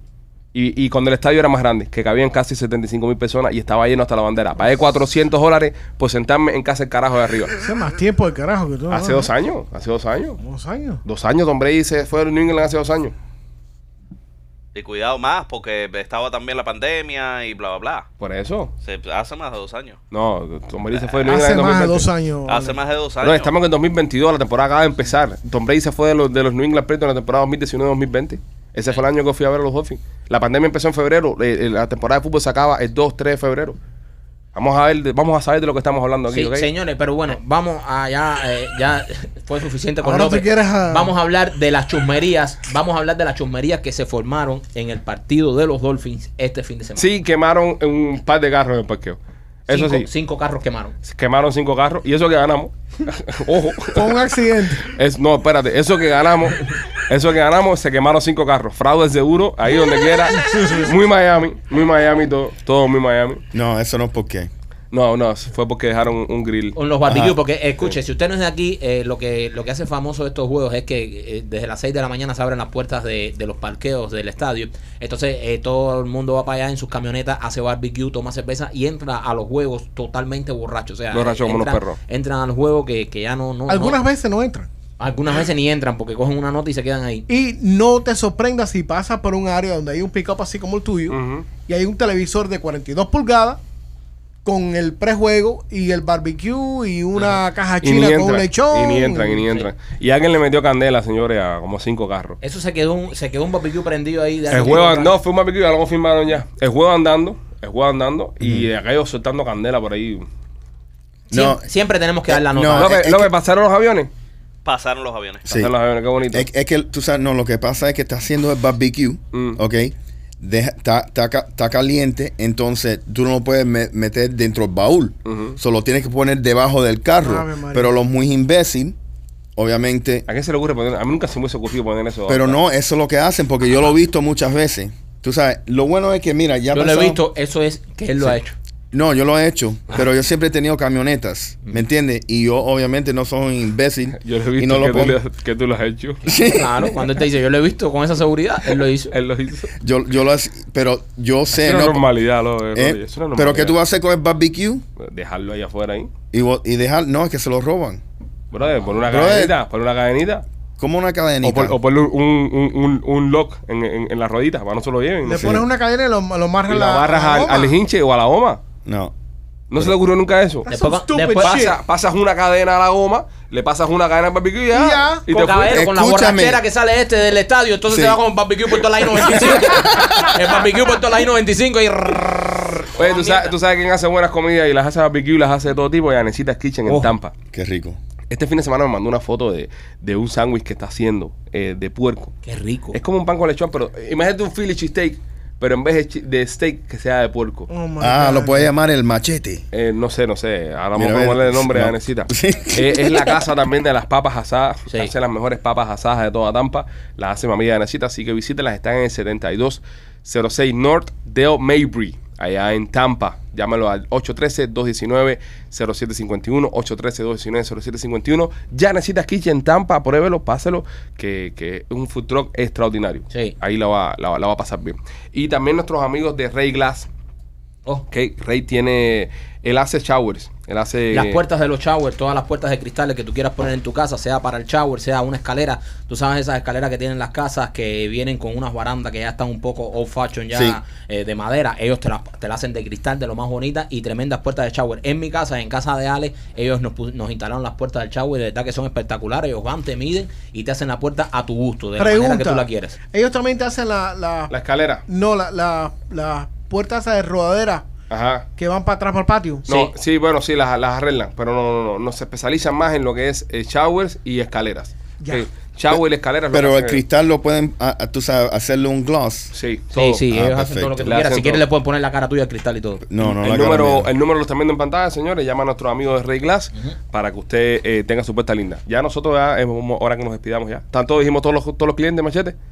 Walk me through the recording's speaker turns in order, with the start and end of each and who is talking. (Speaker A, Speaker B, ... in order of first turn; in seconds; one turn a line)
Speaker A: 0.5-7.5
Speaker B: 7.6-9.3
Speaker A: 8.9-10.4
Speaker B: 10.4-11.0
Speaker A: 11.1-13.1
Speaker C: 14.8-18.1
Speaker A: 18.2-18.7
Speaker C: 18.8-20.0
Speaker A: 20.1-22.1
Speaker B: 21.2-22.8
Speaker C: 22.5-23.5
Speaker A: 23.2-33.8
Speaker A: 34.5-36.7
Speaker D: 36.3-47.1
Speaker B: 40.0-41.1
Speaker A: 47.0-50.1
Speaker D: 49.7-51.0
Speaker A: 51.0-54.2
Speaker B: 53.9-54.9
Speaker A: 54.8-63.4
Speaker E: 63.5-64.5
Speaker A: 64.9-66.8
Speaker D: 66.8-84.0
Speaker E: 67.1-67.4
Speaker A: 81.1-82.0
Speaker B: 83.7-84.7
Speaker D: 85.0-87.3
Speaker B: 87.3-93.6
Speaker A: 91.1-91.5
Speaker B: 94.5-99.5
Speaker A: 97.8-102.4
Speaker D: 102.4-105.2
Speaker A: 104.5-110.3
Speaker E: 108.4-108.7
Speaker E: 111.3-111.7
Speaker D: 111.3-113.0
Speaker E: 112.3-113.3
Speaker A: 112.8-114.1
Speaker C: 114.7-115.5
Speaker E: 115.5-115.7
Speaker A: 115.5-116.5
Speaker E: 116.3-128.9
Speaker A: 119.3-119.6
Speaker A: 125.3-125.6
Speaker B: 127.2-127.9
Speaker E: 129.6-130.3
Speaker A: 130.3-132.6
Speaker E: 132.3-137.2
Speaker D: 136.7-138.6
Speaker E: 138.9-145.2
Speaker A: 144.2-146.2
Speaker E: 146.2-147.0
Speaker D: 146.3-149.1
Speaker A: 149.1-149.7
Speaker E: 149.8-152.1
Speaker A: 151.5-153.8
Speaker E: 152.8-154.8
Speaker A: 155.0-156.1
Speaker E: 156.3-158.0
Speaker A: 158.5-160.4
Speaker E: 159.1-159.6
Speaker E: 160.8-161.8
Speaker A: 161.4-165.6
Speaker B: 165.2-167.8
Speaker E: 165.4-165.7
Speaker A: 166.7-168.6
Speaker E: 168.9-169.1
Speaker A: 169.7-170.7
Speaker B: 170.7-171.8
Speaker D: 170.7-171.7
Speaker A: 171.4-175.8
Speaker B: 174.7-175.2
Speaker D: 175.3-183.6
Speaker E: 175.7-176.6
Speaker E: 177.9-178.2
Speaker E: 179.0-180.4
Speaker A: 183.0-187.3
Speaker D: 186.9-187.1
Speaker E: 187.5-188.0
Speaker A: 188.3-192.3
Speaker D: 192.5-193.0
Speaker A: 192.9-197.7
Speaker B: 197.7-198.7
Speaker E: 198.0-199.6
Speaker A: 199.7-227.1
Speaker E: 200.9-203.5
Speaker A: 228.1-231.4
Speaker D: 231.1-253.0
Speaker E: 240.5-240.8
Speaker B: 252.0-254.5
Speaker A: 254.5-255.1
Speaker B: 255.1-257.9
Speaker A: 258.1-258.5
Speaker B: 258.6-259.7
Speaker D: 259.7-259.9
Speaker A: 259.7-267.0
Speaker E: 265.9-269.5
Speaker A: 269.5-270.3
Speaker D: 269.9-273.1
Speaker E: 270.3-271.1
Speaker A: 271.0-271.6
Speaker E: 273.0-274.1
Speaker A: 273.2-282.6